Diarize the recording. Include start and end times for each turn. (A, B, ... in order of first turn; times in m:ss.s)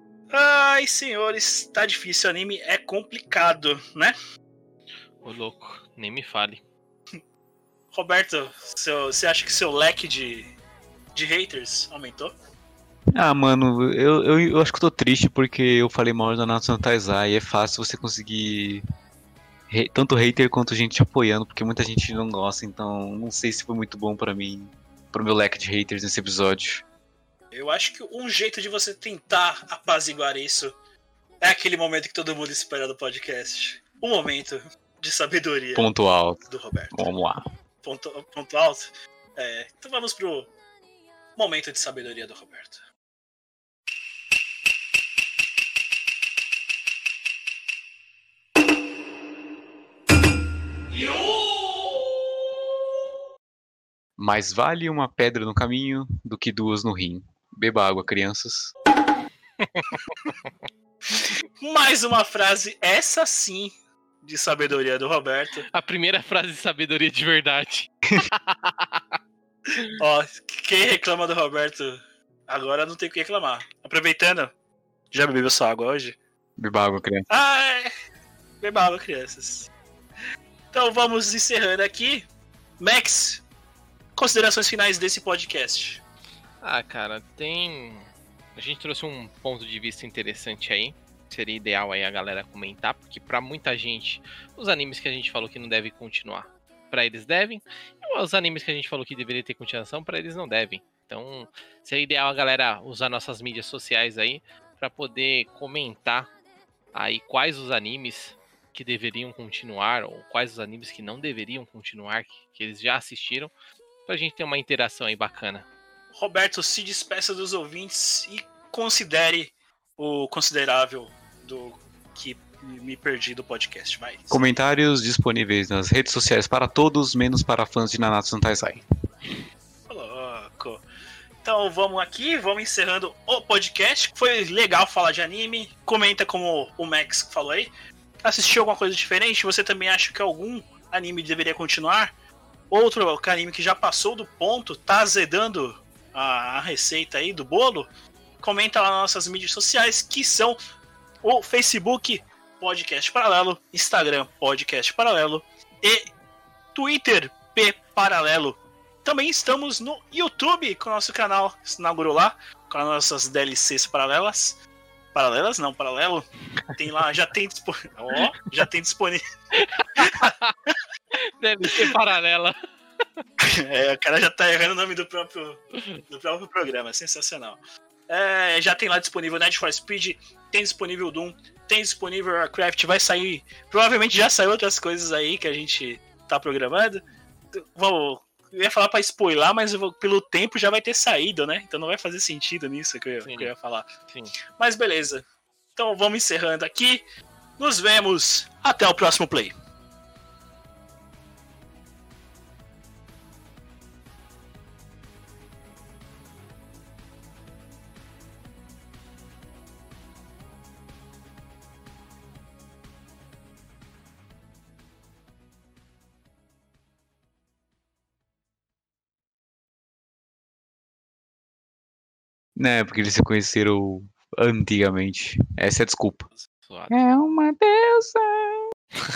0:00.3-0:04.2 A
0:05.2-0:06.6 B
0:07.9-0:10.5 A
0:11.1-0:12.3 A
0:13.2-0:18.8 C
0:19.7-0:26.8 C
0:27.5-0:30.8 A
0:31.4-0:35.9 A
0:35.8-0:36.4 C
0:36.5-0:37.1 A
0:36.9-0:37.4 C
0:37.8-0:40.5 A
0:41.4-0:42.8 A
0:50.9-0:51.3 A
0:54.2-0:58.7 C
0:59.6-1:00.5 B
1:01.1-1:05.7 A
1:05.7-1:09.2 B
1:09.9-1:14.5 A
1:15.1-1:16.2 A
1:16.6-1:17.3 C
1:17.3-1:17.9 A
1:18.6-1:19.7 A
1:20.7-1:22.3 A
1:22.8-1:23.4 A
1:24.2-1:26.0 A
1:26.6-1:46.3 B
1:46.9-1:53.5 B
1:54.1-1:55.7 B
1:56.1-2:04.4 A
2:04.3-2:08.8 C
2:09.9-2:10.8 A
2:11.4-2:22.1 A
2:22.7-2:27.9 A
2:28.4-2:30.6 A
2:31.2-2:36.1 A
2:36.8-2:44.6 A
2:45.1-2:49.2 A
2:49.5-2:50.5 B
2:50.0-2:50.8 A
2:51.3-2:52.6 B
2:53.4-3:13.9 A
3:13.2-3:13.5 B
3:14.6-3:15.2 A
3:15.8-3:17.0 A
3:17.6-3:19.5 A
3:42.6-3:46.3 C
3:46.7-3:47.0 B
3:46.9-3:48.7 C